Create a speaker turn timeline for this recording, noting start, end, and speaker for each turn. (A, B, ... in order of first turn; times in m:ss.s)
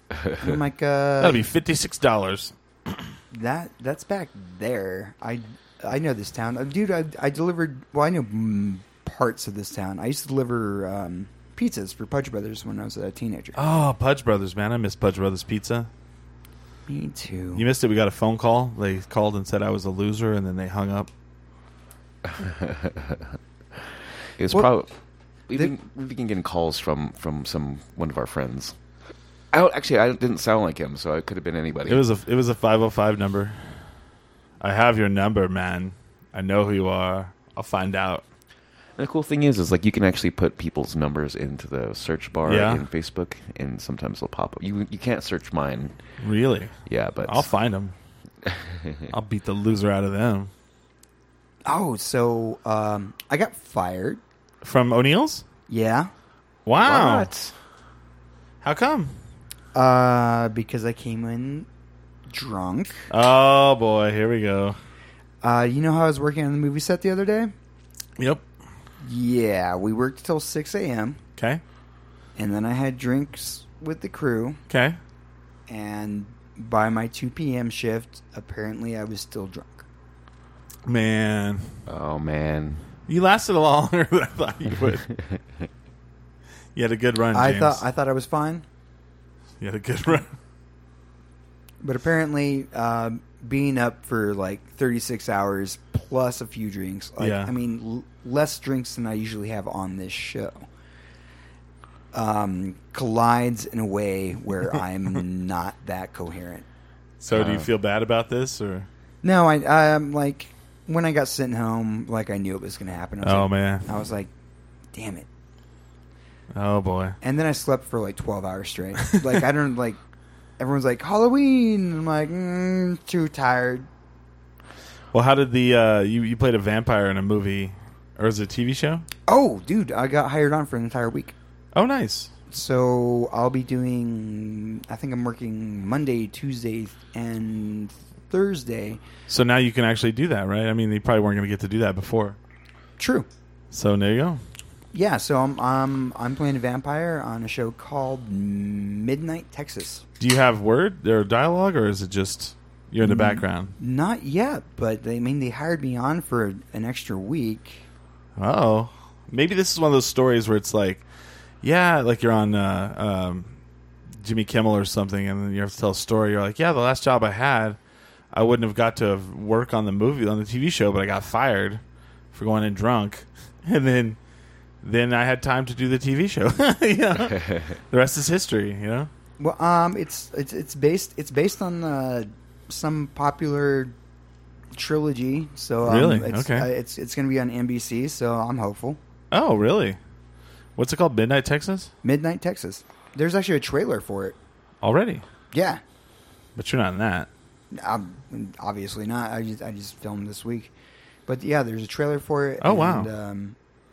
0:00.4-0:01.5 A
0:01.2-0:03.0 B
0:03.3-0:13.6 A
0:13.6-0:15.9 B
0:16.9-0:17.7 A
0:17.6-0:21.1 B
0:22.2-0:23.4 C
0:24.4-0:24.9 C
0:25.5-0:28.8 C
0:29.5-0:32.0 C
0:31.9-0:33.8 B
0:34.6-0:38.2 B
0:39.0-0:46.0 C
0:42.4-0:42.9 B
0:46.2-0:47.9 B
0:46.9-0:47.4 C
0:48.4-0:49.1 C
0:49.1-0:50.5 B
0:51.7-0:54.2 A
0:54.6-0:55.4 B
0:55.7-0:56.1 A
0:56.6-0:57.3 B
0:56.8-0:57.6 C
0:58.6-0:59.2 B
0:59.8-1:01.7 A
1:02.3-1:03.1 A
1:03.1-1:04.8 B
1:05.4-1:07.5 A
1:09.0-1:11.2 A
1:11.4-1:11.6 B
1:12.4-1:14.6 A
1:14.7-1:15.0 B
1:15.7-1:19.8 A
1:20.9-1:21.8 B
1:21.9-1:22.9 C
1:23.1-1:25.1 B
1:26.8-1:27.8 B
1:27.3-1:28.6 A
1:29.6-1:30.3 B
1:31.8-1:40.7 A
1:37.2-1:37.5 B
1:42.1-1:46.6 A
1:47.2-1:48.9 B
1:47.3-1:47.7 C
1:49.2-1:54.3 A
1:53.2-1:53.9 B
1:54.9-1:55.3 A
1:56.5-1:57.2 B
1:57.2-2:00.0 A
2:00.6-2:03.9 A
2:05.1-2:09.1 B
2:09.3-2:11.4 A
2:11.8-2:12.3 B
2:12.5-2:19.0 A
2:19.3-2:22.4 B
2:23.0-2:23.3 A
2:23.7-2:24.4 B
2:24.9-2:30.0 A
2:30.2-2:33.7 B
2:33.0-2:37.8 A
2:38.4-2:41.0 B
2:41.6-2:43.6 B
2:44.2-2:47.8 B
2:48.3-2:51.8 B
2:52.3-2:54.2 B
2:54.8-2:59.1 B
2:57.3-2:57.7 C
2:59.4-3:03.9 A
3:04.7-3:09.0 A
3:05.8-3:06.7 B
3:09.3-3:10.0 B
3:10.8-3:11.9 B
3:12.0-3:14.4 A
3:14.8-3:15.2 B
3:15.5-3:15.8 A
3:16.6-3:17.3 B
3:17.7-3:20.7 A
3:21.3-3:23.6 A
3:22.6-3:23.1 B